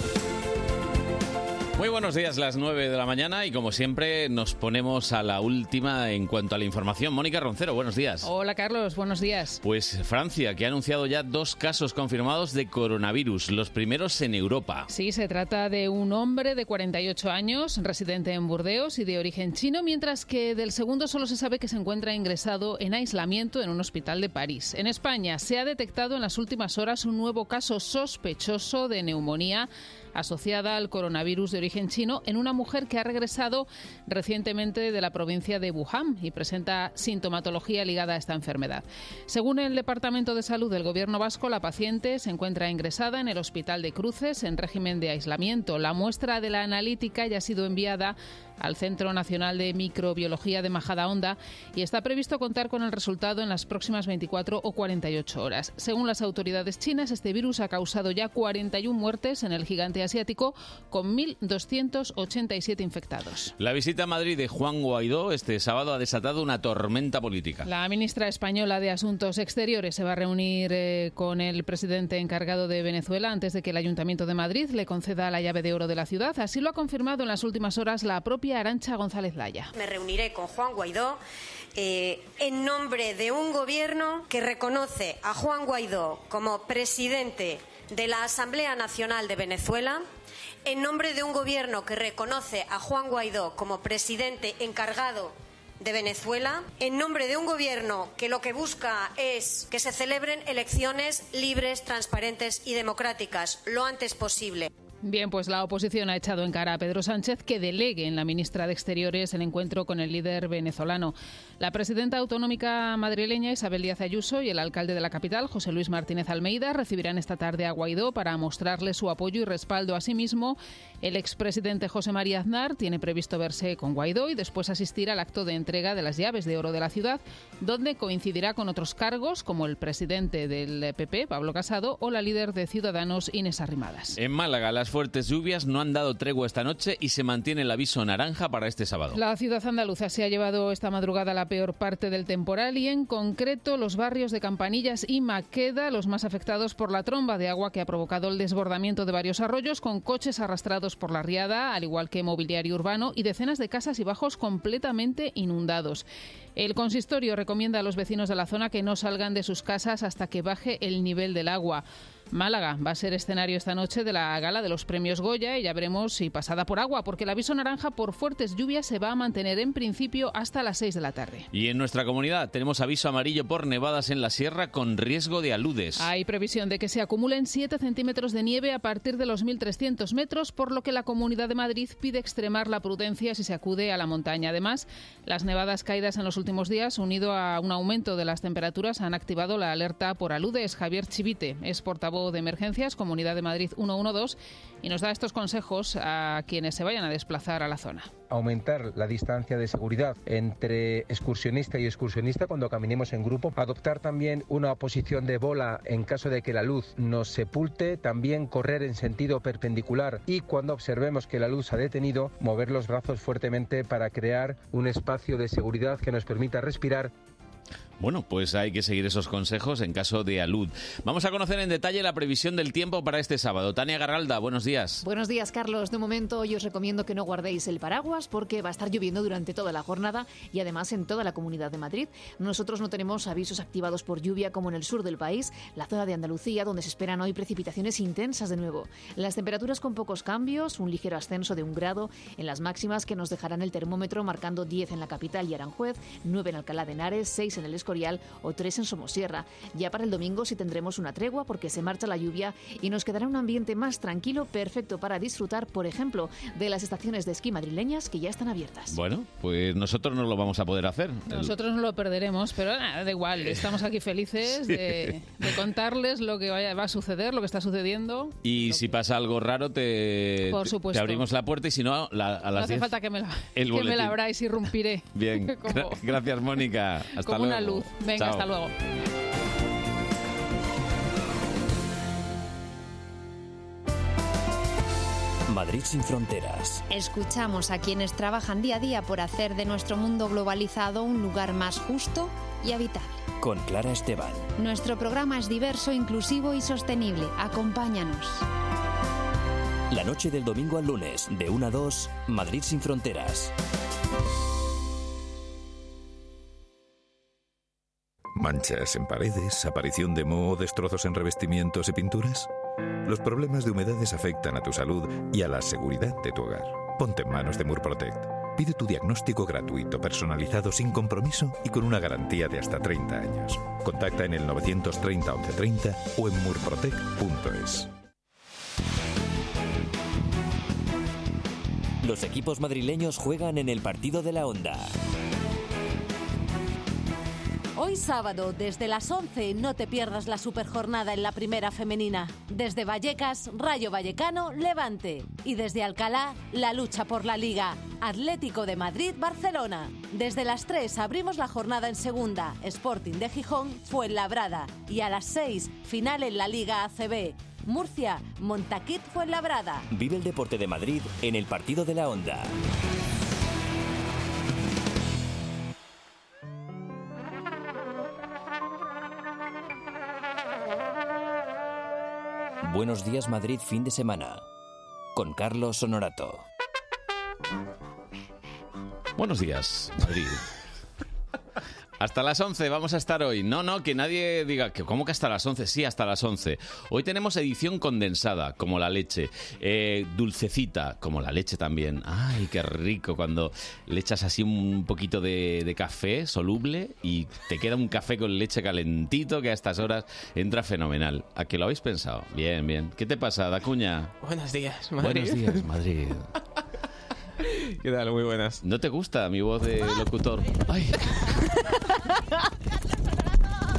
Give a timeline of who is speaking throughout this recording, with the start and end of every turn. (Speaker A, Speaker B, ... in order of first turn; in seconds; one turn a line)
Speaker A: 1.8-8.3
Speaker B: 8.2-9.6
Speaker A: 9.6-14.9
Speaker B: 14.9-63.5
Speaker A: 63.6-67.7
Speaker B: 67.7-79.7
Speaker C: 79.7-81.2
Speaker C: 81.8-90.0
Speaker C: 90.7-104.7
Speaker B: 105.0-134.2
Speaker A: 134.2-139.2
Speaker B: 139.1-156.1
Speaker B: 156.6-171.5
Speaker A: 171.5-176.1
Speaker B: 176.0-198.1
Speaker D: 198.3-217.1
Speaker A: 218.0-225.0
Speaker E: 225.0-259.0
Speaker A: 258.9-261.5
Speaker B: 261.3-268.4
Speaker A: 268.4-272.9
Speaker B: 270.5-271.3
Speaker B: 272.6-276.0
Speaker A: 273.6-274.2
Speaker A: 275.1-278.5
Speaker B: 277.2-278.7
Speaker F: 285.5-286.8
Speaker G: 286.9-293.2
Speaker F: 293.4-294.5
Speaker G: 294.6-298.4
Speaker F: 299.9-303.5
Speaker H: 308.4-312.5
Speaker H: 313.1-327.9
Speaker F: 332.0-334.9
Speaker I: 337.8-359.9
Speaker F: 359.9-362.5
Speaker F: 372.6-374.4
Speaker F: 375.1-376.4
Speaker A: 379.2-380.4
Speaker A: 382.0-404.1
Speaker J: 404.2-405.6
Speaker A: 405.0-406.3
Speaker J: 407.4-408.6
Speaker A: 408.6-411.2